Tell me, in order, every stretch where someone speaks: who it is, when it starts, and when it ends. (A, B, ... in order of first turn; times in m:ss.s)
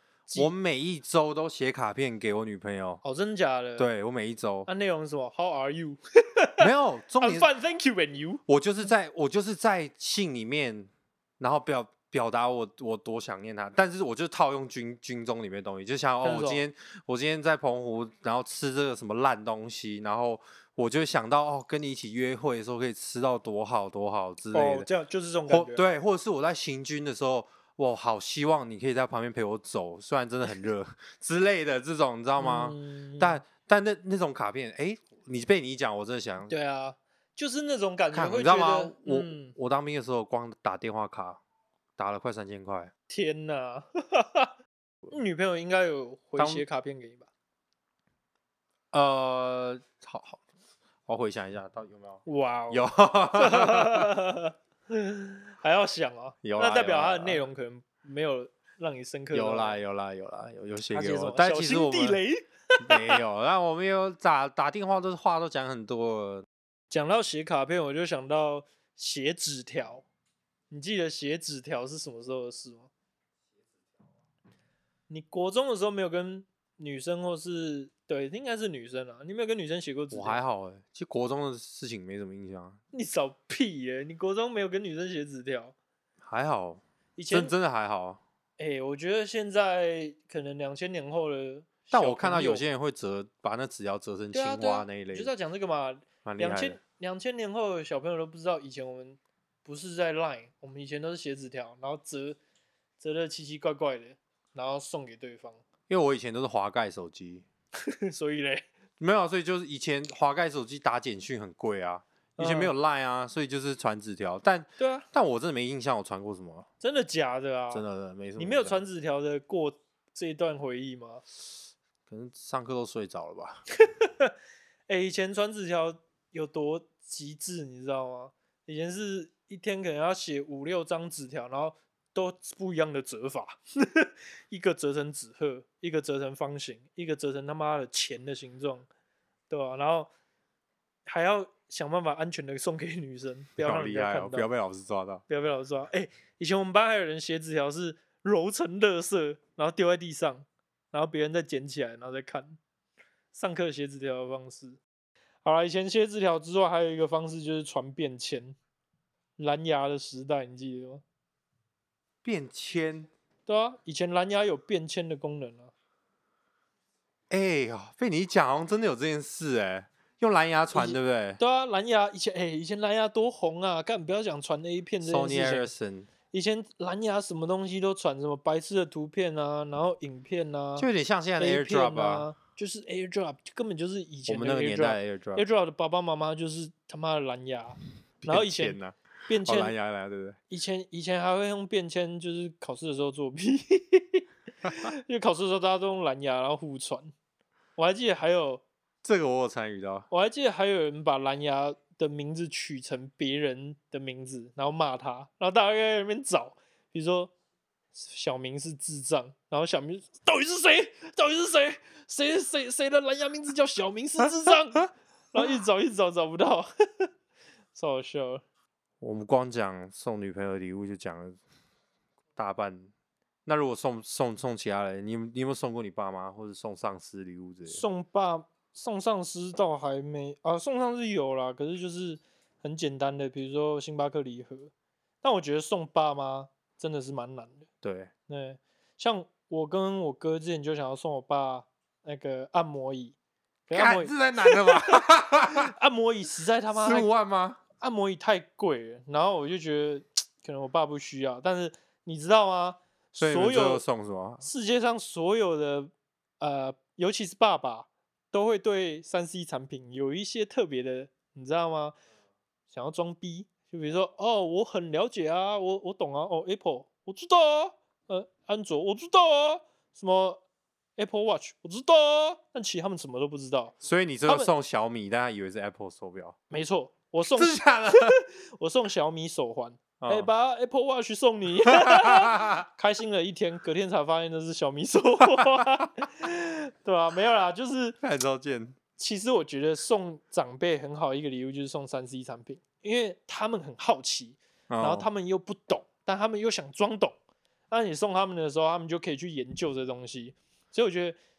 0:00.3-0:00.5 A
0:00.3-0:03.0 B
0:03.0-0:03.9 A
0:03.8-0:04.7 B
0:04.6-0:06.6 A
0:06.6-0:07.5 B
0:07.2-0:08.4 A
0:08.5-0:24.9 B
0:16.2-0:16.6 A
0:24.5-0:25.8 A
0:25.5-0:36.5 B
0:32.4-0:33.4 A
0:36.5-0:39.5 A
0:38.1-0:41.4 B
0:42.0-0:42.9 B
0:43.1-0:44.5 A
0:45.1-0:47.3 A
0:46.4-0:46.6 B
0:48.9-0:50.4 B
0:51.1-0:54.1 B
0:52.2-0:59.8 A
0:56.4-0:57.4 B
0:59.3-1:02.2 B
1:00.9-1:03.2 A
1:02.8-1:06.4 B
1:06.9-1:10.0 A
1:10.7-1:12.9 A
1:15.1-1:20.4 A
1:20.1-1:22.8 B
1:22.9-1:25.7 A
1:26.2-1:28.2 B
1:27.2-1:27.5 A
1:28.6-1:32.6 A
1:31.9-1:35.3 B
1:34.3-1:42.4 A
1:36.2-1:36.8 B
1:43.0-1:45.6 A
1:45.9-1:47.4 B
1:47.8-1:48.6 A
1:49.0-1:56.7 B
1:52.4-1:52.7 A
1:54.8-1:55.0 A
1:56.8-1:57.8 A
1:57.7-1:58.8 B
1:58.4-2:01.2 A
2:02.1-2:03.6 B
2:04.0-2:04.3 A
2:04.9-2:18.9 A
2:19.5-2:20.1 A
2:21.1-2:24.5 A
2:23.6-2:25.2 B
2:25.3-2:32.6 A
2:33.3-2:34.8 A
2:35.4-2:38.6 A
2:39.4-2:41.0 A
2:42.2-2:43.1 B
2:43.5-2:45.7 A
2:47.3-2:51.4 B
2:50.7-2:55.7 A
2:55.0-2:56.1 B
2:56.3-3:09.7 A
3:00.8-3:02.3 B
3:04.3-3:05.4 B
3:08.2-3:10.4 B
3:10.5-3:17.1 A
3:17.8-3:18.6 A
3:19.0-3:20.1 B
3:20.1-3:27.3 A
3:27.9-3:37.1 A
3:37.7-3:38.4 A
3:39.0-3:41.4 B
3:42.4-3:42.9 B
3:43.4-3:47.8 B
3:47.7-3:57.7 A
3:57.8-3:58.1 B
3:58.3-4:03.2 A
4:03.7-4:07.1 A
4:03.7-4:05.7 B
4:06.7-4:07.6 B
4:07.8-4:13.8 A
4:13.2-4:14.4 B
4:14.4-4:22.0 A
4:22.7-4:30.4 A
4:31.0-4:33.8 A
4:33.8-4:36.4 B
4:36.5-4:48.0 A
4:37.4-4:38.2 B
4:40.0-4:40.3 B
4:41.6-4:42.6 B
4:45.2-4:45.9 B
4:48.0-4:48.8 B
4:49.0-4:57.2 A
4:54.7-4:55.1 B
4:57.7-5:01.2 A